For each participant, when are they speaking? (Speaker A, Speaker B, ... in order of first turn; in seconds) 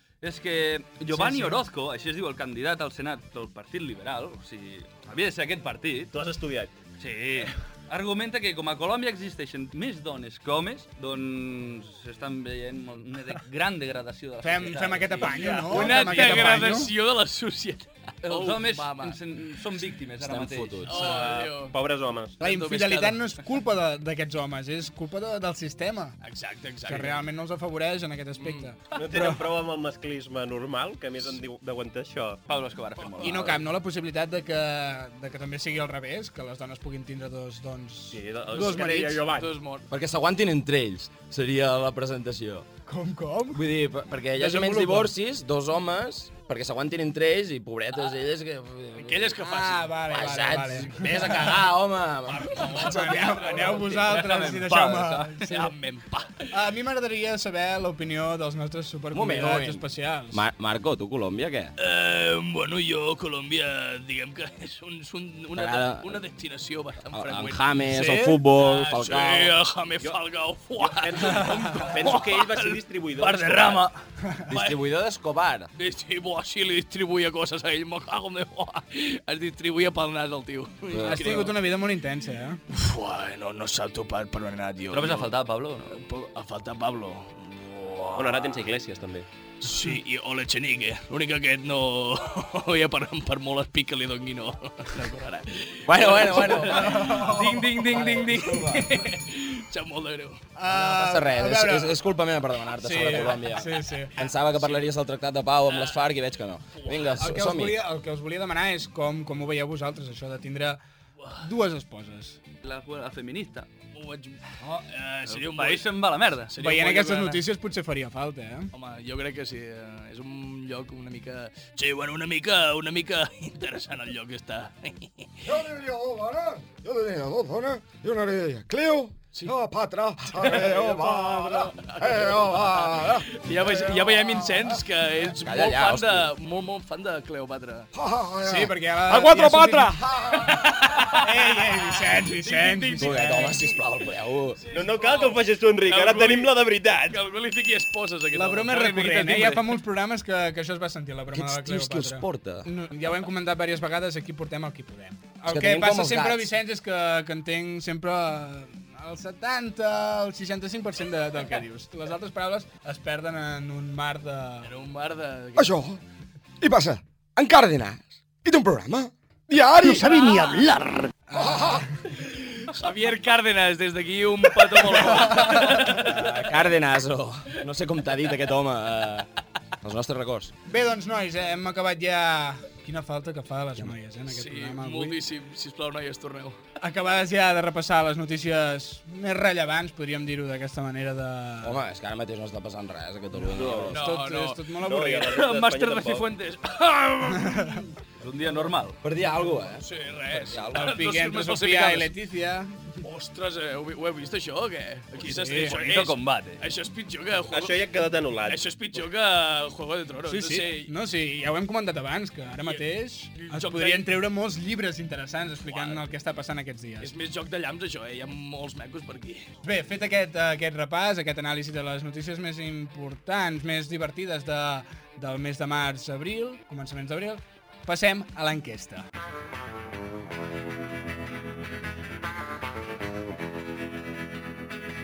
Speaker A: 0.2-6.1, 7.0-16.6, 18.2-21.2, 32.5-33.6, 53.8-55.4, 73.2-73.9, 84.9-85.9, 112.6-113.7, 115.3-116.5, 198.2-199.0, 205.5-206.6
Speaker B: 1.1-1.6, 14.4-16.9, 22.4-26.2, 26.9-29.4, 33.2-39.4, 42.9-43.6, 44.4-45.1, 49.4-51.6, 52.6-55.7, 56.5-60.4, 67.9-68.4, 81.0-82.6, 96.7-97.7, 100.6-102.0, 102.8-104.1, 107.2-110.8, 111.4-112.4, 116.6-118.7, 138.4-140.0, 141.1-143.7, 148.3-164.7, 171.3-172.0, 175.1-175.4, 180.7-185.2, 186.8-191.8, 193.7-195.3, 197.3-197.8, 200.8-202.9, 205.2-205.8, 210.3-217.1, 219.6-229.1
Speaker C: 6.1-6.7, 21.0-22.4, 28.9-32.4, 38.1-39.5, 70.8-73.8, 88.2-89.3, 144.7-147.2, 194.8-196.3, 207.5-209.0
Speaker D: 15.4-19.2, 20.9-21.8, 22.4-23.3, 26.2-27.2, 28.4-28.7, 33.0-33.5, 39.3-39.9, 49.0-49.9, 52.3-56.4, 61.8-67.7, 68.6-73.6, 75.8-81.6, 82.7-85.3, 85.9-88.7, 89.6-100.4, 104.5-104.9, 105.7-106.0, 106.8-107.1, 113.9-115.9, 116.5-117.5, 118.7-125.5, 130.3-137.9, 140.4-141.6, 142.2-143.8, 144.6-146.6, 147.1-149.8, 164.6-165.8, 172.2-176.3, 184.3-186.6, 193.9-194.6, 195.1-197.8, 199.8-202.1, 203.0-207.8, 208.4-210.9, 213.3-214.1, 215.7-216.0, 217.0-219.5
Speaker E: 20.2-21.0, 39.9-42.7, 43.5-49.3, 50.1-52.7, 59.1-61.7, 65.6-66.2, 67.1-69.6, 74.5-75.7, 80.9-81.5, 95.9-97.3, 97.8-98.9, 100.7-107.8, 135.4-136.3, 143.0-144.6, 151.3-152.7, 155.5-156.5, 167.4-168.1, 175.8-179.3, 179.8-180.5, 191.6-194.0, 199.0-200.9
Speaker F: 125.4-134.8, 137.9-140.6, 165.6-166.0, 166.6-167.0, 168.4-170.8, 171.3-171.8